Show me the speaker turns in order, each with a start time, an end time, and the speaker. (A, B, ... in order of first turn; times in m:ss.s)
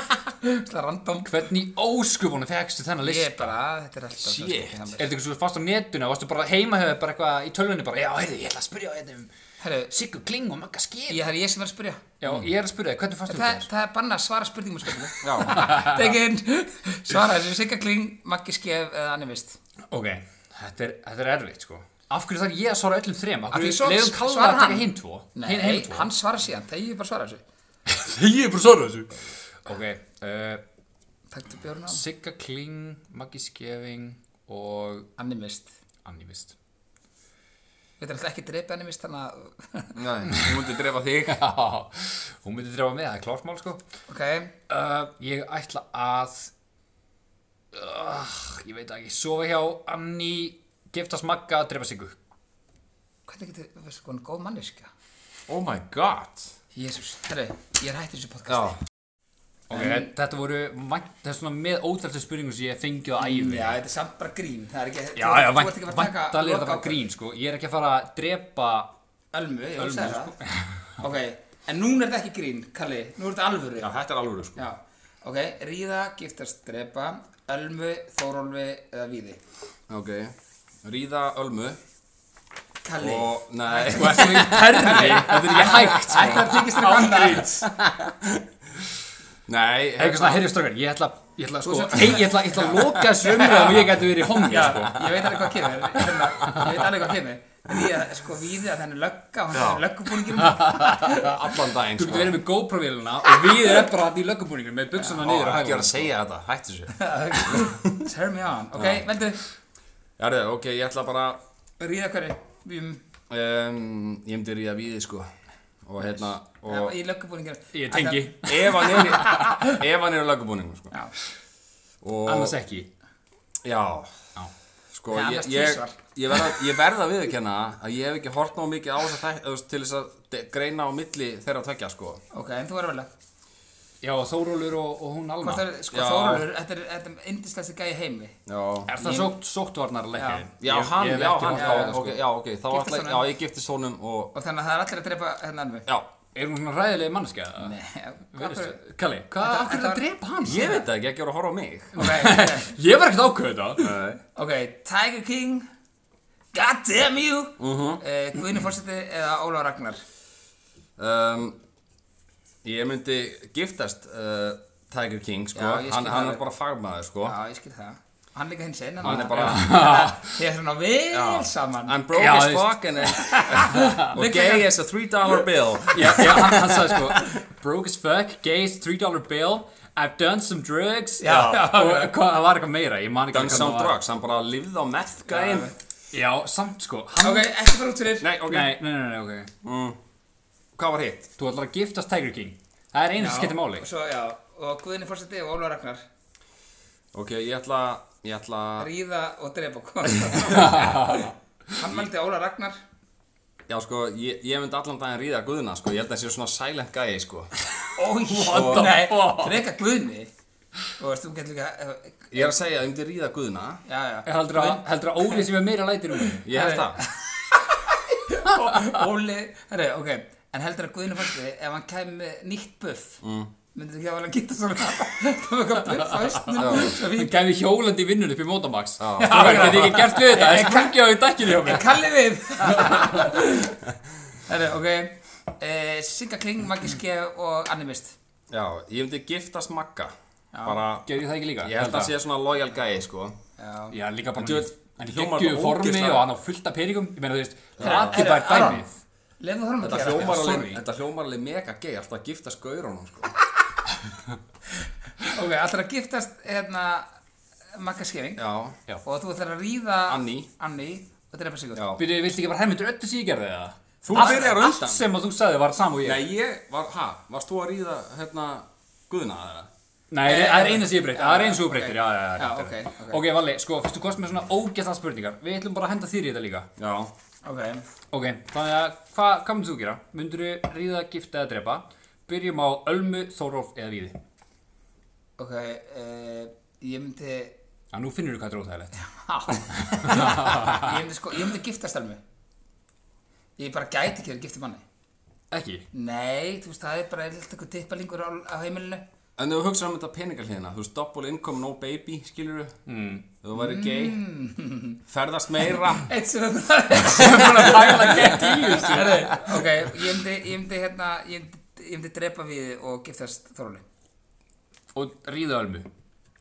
0:00.4-0:01.3 A
0:01.2-0:03.5 B
0:03.0-0:05.0 A
0:04.2-0:04.9 C
0:05.0-0:09.3 B
0:09.6-0:09.9 A
0:09.9-0:11.2 B
0:11.1-0:12.0 A
0:12.2-0:13.7 B
0:13.3-0:19.6 A
0:15.2-0:15.7 C
0:15.5-0:16.1 B
0:19.9-0:26.1 B
0:23.5-0:27.4 A
0:27.9-0:30.6 B
0:31.3-0:32.0 A
0:31.9-0:35.1 B
0:35.2-0:35.7 A
0:36.0-0:36.5 B
0:38.0-0:40.0 A
0:39.9-0:41.4 C
0:40.3-0:40.6 B
0:41.3-0:43.8 B
0:44.1-0:44.5 A
0:44.7-0:46.5 B
0:47.7-0:52.2 B
0:53.3-0:54.9 A
0:55.5-0:56.5 C
0:56.7-0:58.8 A
0:58.5-0:58.8 C
0:59.7-1:03.8 B
0:59.7-1:00.1 A
1:03.2-1:07.0 A
1:05.2-1:08.9 B
1:09.3-1:10.3 A
1:09.8-1:10.8 B
1:11.0-1:13.9 A
1:13.8-1:14.6 C
1:14.6-1:19.4 A
1:19.9-1:21.8 C
1:22.8-1:27.7 A
1:23.0-1:26.4 C
1:23.8-1:27.7 B
1:27.8-1:28.3 C
1:29.5-1:30.4 C
1:30.0-1:35.1 B
1:31.6-1:41.0 A
1:34.7-1:35.2 C
1:36.4-1:36.6 B
1:39.5-1:39.8 C
1:40.4-1:46.1 B
1:41.0-1:42.4 C
1:45.2-1:47.9 C
1:46.9-1:49.4 A
1:48.7-1:49.1 C
1:50.2-1:51.4 C
1:51.8-1:53.0 A
1:53.3-1:55.3 C
1:55.8-1:57.0 C
1:56.6-1:59.6 A
1:57.7-1:59.6 B
1:58.4-2:00.9 C
2:02.0-2:02.6 C
2:02.2-2:02.9 B
2:03.6-2:04.1 C
2:04.9-2:12.2 C
2:05.1-2:06.0 A
2:12.3-2:13.1 A
2:14.0-2:15.6 B
2:15.4-2:18.4 A
2:15.9-2:16.4 C
2:18.4-2:18.9 C
2:18.9-2:22.2 B
2:19.0-2:19.3 A
2:20.2-2:20.5 A
2:20.6-2:24.3 C
2:21.5-2:22.0 A
2:22.7-2:23.2 A
2:24.3-2:25.9 A
2:26.3-2:27.8 B
2:27.6-2:28.8 A
2:28.3-2:30.8 B
2:29.4-2:30.0 A
2:30.4-2:31.9 C
2:31.9-2:32.7 A
2:31.9-2:33.9 B
2:33.8-2:34.2 C
2:34.4-2:35.7 A
2:36.5-2:40.0 A
2:37.6-2:38.0 C
2:41.0-2:41.6 C
2:42.6-2:47.4 C
2:45.5-2:46.4 A
2:47.2-2:52.0 A
2:49.0-2:50.1 C
2:49.1-2:50.3 B
2:51.1-2:57.3 C
2:52.1-2:52.8 B
2:53.2-2:54.6 A
2:53.7-2:54.0 B
2:55.9-3:04.0 B
3:01.2-3:02.1 A
3:03.3-3:05.7 C
3:05.3-3:05.7 A
3:06.1-3:07.5 B
3:07.2-3:08.3 A
3:08.2-3:08.7 C
3:08.5-3:09.5 B
3:09.6-3:10.0 C
3:10.7-3:11.3 C
3:11.4-3:13.8 B
3:13.2-3:16.0 A
3:17.1-3:18.9 C
3:18.8-3:21.1 A
3:20.3-3:21.2 C
3:20.5-3:21.3 B
3:21.7-3:22.8 A
3:23.7-3:27.5 C
3:27.8-3:29.6 B
3:28.0-3:30.3 A
3:28.4-3:29.0 C
3:31.0-3:32.5 A
3:32.3-3:33.8 C
3:33.9-3:35.5 A
3:34.2-3:36.4 B
3:36.2-3:43.2 A
3:36.4-3:37.0 C
3:43.2-3:43.5 C
3:43.7-3:47.3 A
3:46.1-3:52.0 B
3:46.6-3:47.0 C
3:49.0-3:50.1 C
3:49.2-3:53.8 A
3:52.6-3:53.3 B
3:54.5-3:58.2 A
3:58.5-4:01.1 C
4:00.5-4:00.8 A
4:01.0-4:02.1 B
4:01.6-4:03.4 C
4:03.6-4:04.0 A
4:03.9-4:08.9 B
4:04.3-4:06.2 C
4:07.8-4:08.2 C
4:07.8-4:08.9 A
4:09.4-4:10.6 A
4:09.8-4:13.4 C
4:10.2-4:10.8 B
4:15.3-4:17.1 A
4:17.7-4:18.4 A
4:18.4-4:18.8 C
4:19.0-4:21.8 A
4:20.1-4:20.5 C
4:21.7-4:22.0 C
4:22.0-4:26.2 B
4:24.0-4:24.6 A
4:24.0-4:25.0 C
4:26.0-4:29.7 C
4:30.1-4:36.7 B
4:30.2-4:33.2 A
4:36.8-4:37.1 C
4:37.4-4:37.8 A
4:38.1-4:44.2 B
4:45.4-4:47.5 A
4:47.9-4:48.9 B
4:49.0-4:52.2 A
4:49.7-4:51.0 B
4:53.6-4:54.8 A
4:55.5-4:55.8 B
4:55.9-4:59.0 A
4:59.4-5:02.8 C
5:02.8-5:03.2 B
5:03.4-5:04.2 C
5:03.5-5:05.0 A
5:05.1-5:06.1 C
5:06.0-5:13.8 A
5:07.0-5:09.7 B
5:14.9-5:15.9 B